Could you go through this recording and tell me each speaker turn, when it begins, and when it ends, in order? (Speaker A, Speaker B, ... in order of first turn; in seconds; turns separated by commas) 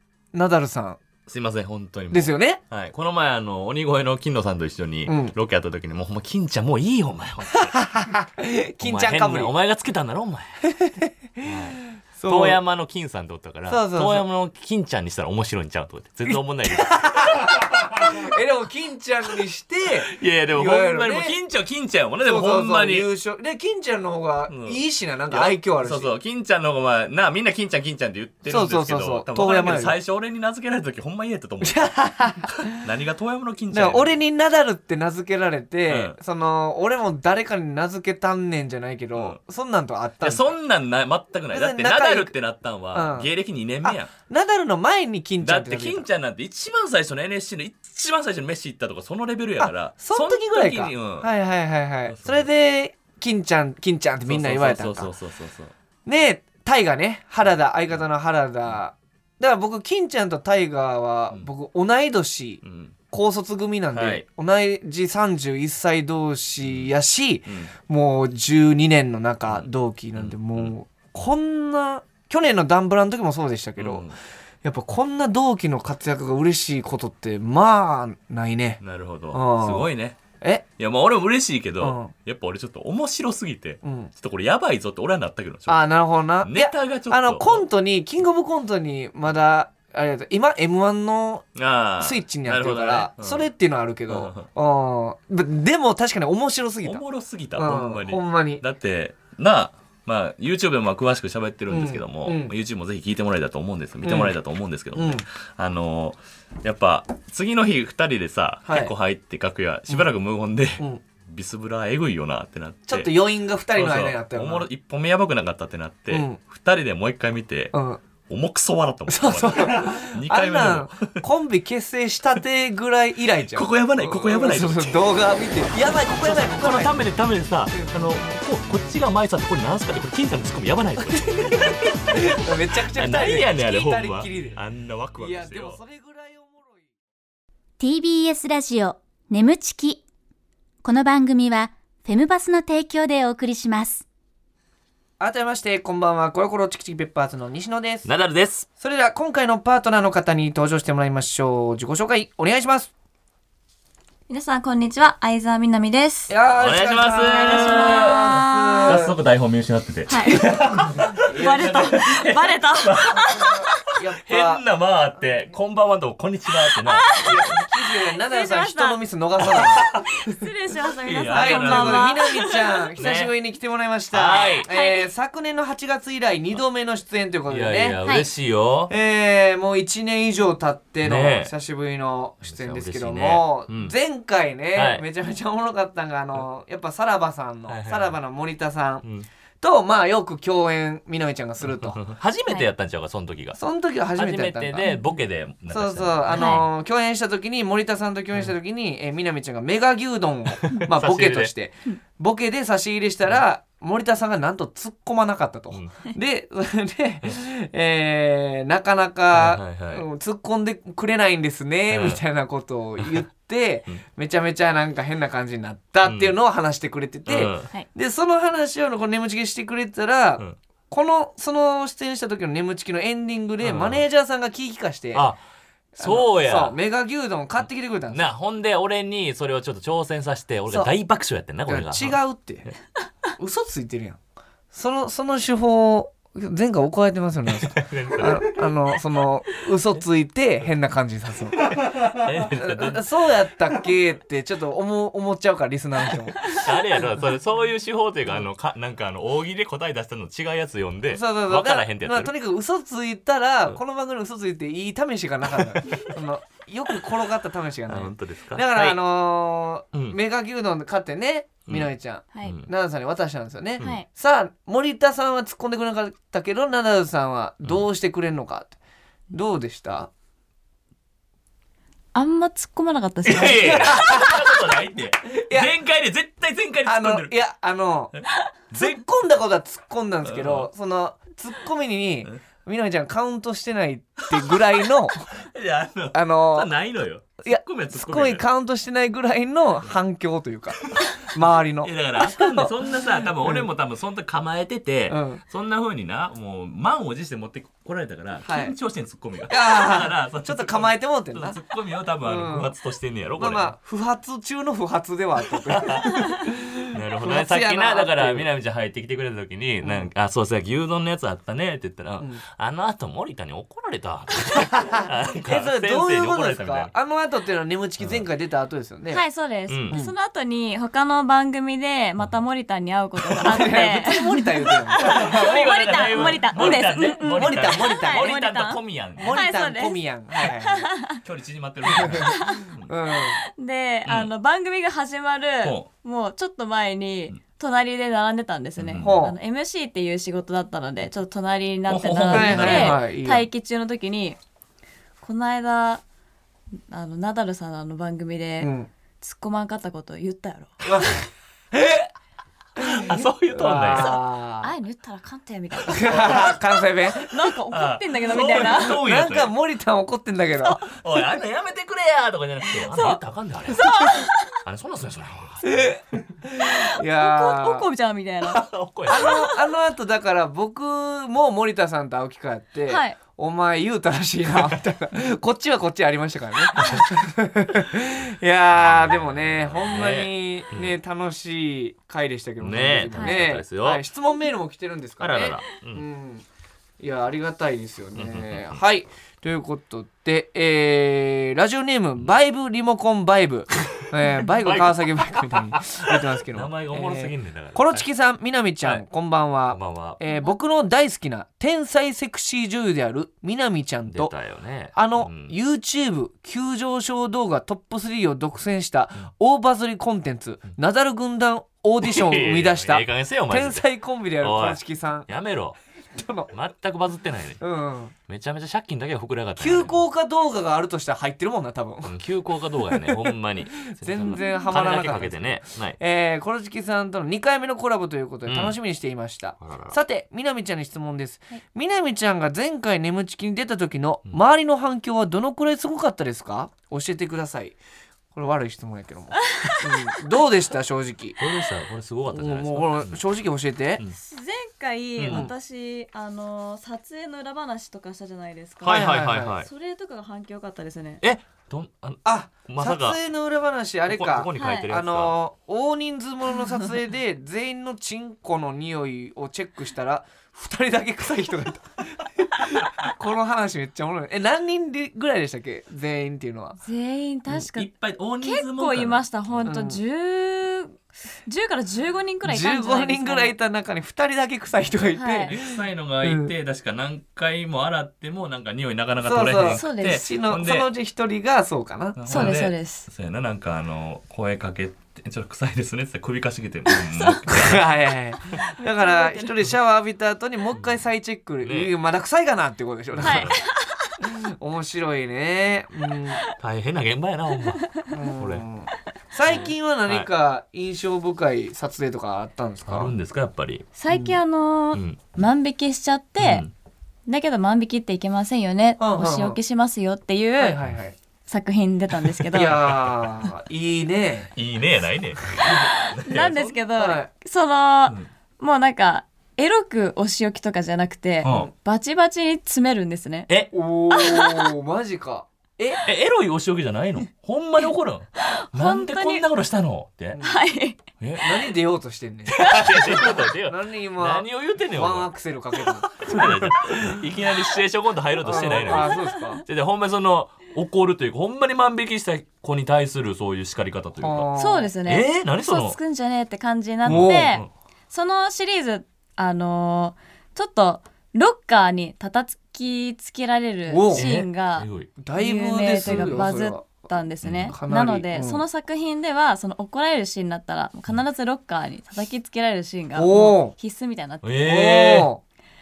Speaker A: 0.3-1.0, Speaker B: 1.3-7.8, Speaker A: 2.1-2.6, Speaker A: 5.0-5.3, Speaker A: 7.6-9.5, Speaker B: 8.8-10.7, Speaker A: 10.7-12.6, Speaker B: 11.4-18.2, Speaker A: 13.7-14.2, Speaker A: 16.3-21.4, Speaker B: 19.9-23.1, Speaker A: 22.2-26.1, Speaker B: 24.5-31.9, Speaker A: 28.4-30.0, Speaker A: 31.6-32.8, Speaker B: 32.6-34.2, Speaker A: 33.7-40.5, Speaker B: 35.9-36.1, Speaker B: 40.2-44.1, Speaker A: 41.5-42.3, Speaker A: 42.9-43.3, Speaker A: 43.8-46.1, Speaker B: 45.4-51.3, Speaker A: 49.6-55.1, Speaker B: 52.1-52.5, Speaker B: 54.3-55.7, Speaker A: 56.0-62.6, Speaker B: 62.6-63.0, Speaker A: 63.1-74.1, Speaker B: 63.9-64.2, Speaker B: 66.6-66.9, Speaker B: 67.5-67.7, Speaker B: 69.5-70.7, Speaker B: 73.8-74.1, Speaker A: 74.6-78.8, Speaker B: 78.8-80.2, Speaker A: 79.3-80.6, Speaker B: 80.8-85.8, Speaker A: 81.8-82.1, Speaker A: 83.8-84.1, Speaker A: 85.7-91.4, Speaker B: 86.4-87.7, Speaker B: 91.5-93.5, Speaker A: 92.0-97.0, Speaker B: 94.1-94.5, Speaker B: 96.8-113.1, Speaker A: 97.5-98.6, Speaker A: 101.7-102.5, Speaker A: 104.0-104.3, Speaker A: 104.9-105.2, Speaker A: 108.7-108.9, Speaker A: 112.9-114.7, Speaker B: 113.7-117.7, Speaker A: 116.1-116.4, Speaker A: 117.7-118.0, Speaker B: 118.3-121.2, Speaker A: 119.1-127.0, Speaker B: 123.5-125.1, Speaker B: 126.1-132.4, Speaker A: 127.7-128.1, Speaker A: 131.1-134.6, Speaker B: 132.9-135.8, Speaker A: 135.2-136.9, Speaker C: 137.8-140.0, Speaker C: 140.8-144.0, Speaker A: 145.2-148.1, Speaker B: 148.0-148.7, Speaker A: 148.8-152.9, Speaker D: 154.3-156.3, Speaker A: 156.3-159.1, Speaker B: 156.6-163.6, Speaker D: 157.3-159.0, Speaker D: 160.1-160.6, Speaker A: 161.2-161.9, Speaker D: 161.3-163.1, Speaker A: 163.2-164.6, Speaker B: 164.3-167.3, Speaker D: 166.7-167.4, Speaker A: 167.2-169.8, Speaker D: 168.1-172.9, Speaker B: 169.4-170.0, Speaker B: 171.0-172.2, Speaker A: 171.3-178.0, Speaker B: 173.0-173.3, Speaker B: 174.1-174.7, Speaker D: 174.6-175.1, Speaker B: 177.5-178.9, Speaker A: 178.9-189.0, Speaker B: 181.0-181.5, Speaker B: 182.5-183.9, Speaker B: 184.7-185.0, Speaker B: 187.7-188.2, Speaker A: 189.6-192.0, Speaker B: 191.7-193.6, Speaker A: 193.6-195.0, Speaker B: 194.2-196.7, Speaker A: 195.7-225.2, Speaker D: 196.3-196.6, Speaker B: 200.5-201.5, Speaker B: 209.3-210.0, Speaker B: 211.9-212.2, Speaker B: 213.0-213.2, Speaker B: 216.0-216.3, Speaker B: 217.3-217.7, Speaker B: 223.6-224.0, Speaker B: 225.1-225.4, Speaker A: 226.0-228.3, Speaker B: 226.0-226.8, Speaker B: 228.1-232.7, Speaker A: 231.7-232.7, Speaker A: 233.4-234.2, Speaker A: 234.7-241.7, Speaker B: 237.5-238.7, Speaker B: 241.6-243.2, Speaker A: 242.4-247.3, Speaker B: 246.5-252.3, Speaker A: 251.1-268.8, Speaker B: 255.6-256.1, Speaker B: 257.9-259.0, Speaker B: 262.4-262.7, Speaker D: 263.8-264.1, Speaker A: 269.3-270.1, Speaker D: 272.1-274.2, Speaker B: 273.2-277.3, Speaker A: 273.5-274.4, Speaker A: 275.3-275.7, Speaker A: 276.9-278.1, Speaker B: 278.1-279.0, Speaker A: 278.7-285.3, Speaker B: 280.2-280.7, Speaker B: 284.2-288.4, Speaker A: 286.1-286.7, Speaker A: 287.4-293.7, Speaker B: 290.7-291.3, Speaker B: 291.8-303.7, Speaker A: 295.1-295.4, Speaker A: 298.4-298.8, Speaker A: 299.5-301.6, Speaker A: 302.2-302.7, Speaker A: 303.4-308.5, Speaker B: 305.5-306.4, Speaker B: 306.9-316.9, Speaker A: 309.8-310.1, Speaker A: 314.5-319.2, Speaker B: 318.0-318.2, Speaker D: 319.1-324.4, Speaker B: 319.7-320.0, Speaker B: 323.2-323.6, Speaker A: 323.4-325.5, Speaker D: 324.9-331.2, Speaker B: 325.0-329.3, Speaker A: 326.1-328.3, Speaker A: 329.2-330.9, Speaker B: 331.2-332.9, Speaker A: 331.9-332.3, Speaker D: 332.1-332.6, Speaker A: 332.9-333.4, Speaker D: 333.5-344.4, Speaker B: 335.6-335.9, Speaker B: 338.8-339.2, Speaker A: 339.0-339.4, Speaker B: 341.9-343.0, Speaker A: 342.3-343.5, Speaker D: 345.2-346.0, Speaker D: 346.9-351.1, Speaker A: 348.6-348.9, Speaker A: 350.8-352.1, Speaker A: 352.8-354.7, Speaker B: 352.9-354.1, Speaker D: 353.9-356.5, Speaker A: 355.9-357.3, Speaker B: 356.1-356.4, Speaker D: 357.1-359.0, Speaker B: 357.7-359.5, Speaker A: 358.3-360.9, Speaker B: 360.7-363.9, Speaker D: 362.7-363.2, Speaker D: 363.7-364.5, Speaker B: 364.6-366.0, Speaker A: 365.6-367.8, Speaker D: 366.6-369.6, Speaker B: 368.5-369.5, Speaker A: 369.1-386.4, Speaker D: 372.9-373.2, Speaker B: 376.8-377.1, Speaker B: 378.8-381.0, Speaker B: 382.6-384.0, Speaker D: 383.1-383.4, Speaker B: 385.2-386.1, Speaker A: 387.0-404.3, Speaker B: 388.1-388.8, Speaker B: 394.5-398.1, Speaker B: 399.7-400.2, Speaker D: 400.3-400.5, Speaker B: 404.1-405.5, Speaker A: 404.9-415.3, Speaker B: 412.0-413.9, Speaker B: 414.4-415.8, Speaker A: 416.1-416.5, Speaker B: 416.5-417.6, Speaker A: 417.6-418.1, Speaker B: 418.3-420.0, Speaker A: 419.6-422.2, Speaker B: 422.1-426.0, Speaker A: 422.9-423.3, Speaker A: 423.9-437.8, Speaker D: 424.3-424.7, Speaker B: 428.5-428.8, Speaker B: 429.6-430.0, Speaker A: 438.3-441.4, Speaker D: 439.5-439.8, Speaker B: 441.4-443.2, Speaker A: 442.3-444.0, Speaker D: 444.1-451.2, Speaker B: 445.2-445.5, Speaker A: 445.3-445.5, Speaker B: 448.8-449.7, Speaker A: 448.8-449.6, Speaker B: 451.2-453.2, Speaker A: 452.2-466.8, Speaker B: 454.1-455.3, Speaker D: 454.6-454.9, Speaker D: 466.8-467.9, Speaker B: 467.5-469.7, Speaker D: 468.4-473.5, Speaker A: 469.6-470.0, Speaker A: 472.4-476.5, Speaker D: 475.1-475.5, Speaker B: 475.5-480.9, Speaker A: 479.2-482.6, Speaker D: 479.7-480.2, Speaker B: 482.1-487.9, Speaker D: 482.3-483.1, Speaker A: 487.4-493.5, Speaker D: 488.5-489.6, Speaker B: 490.7-491.0, Speaker B: 491.6-491.9, Speaker B: 493.1-493.6, Speaker D: 493.2-494.2, Speaker A: 494.2-496.4, Speaker B: 496.6-498.6, Speaker D: 497.8-498.1, Speaker A: 498.1-503.1, Speaker B: 499.5-500.3, Speaker B: 502.9-503.9, Speaker D: 503.9-506.6, Speaker A: 504.1-504.4, Speaker B: 506.4-506.7, Speaker D: 507.3-510.8, Speaker A: 509.0-509.6, Speaker A: 510.6-511.1, Speaker D: 511.5-512.8, Speaker A: 512.5-514.5, Speaker B: 512.6-513.1, Speaker B: 514.5-516.8, Speaker D: 515.6-523.5, Speaker A: 517.0-517.3, Speaker B: 521.4-521.7, Speaker A: 521.4-521.7, Speaker A: 523.7-526.0, Speaker D: 524.1-524.7, Speaker B: 526.0-530.4, Speaker D: 528.4-529.4, Speaker A: 530.3-530.6, Speaker D: 530.4-531.0, Speaker B: 531.2-531.7, Speaker A: 531.4-537.1, Speaker B: 532.5-544.5, Speaker A: 538.4-539.6, Speaker D: 538.6-539.6, Speaker A: 544.2-544.9, Speaker D: 544.6-564.5, Speaker B: 545.0-546.0, Speaker A: 547.0-547.5, Speaker B: 547.0-547.7, Speaker A: 553.9-554.3, Speaker B: 554.1-555.1, Speaker A: 555.2-557.1, Speaker B: 556.0-556.5, Speaker B: 557.4-557.7, Speaker A: 557.7-558.6, Speaker A: 563.1-563.7, Speaker B: 564.4-565.3, Speaker A: 564.6-565.4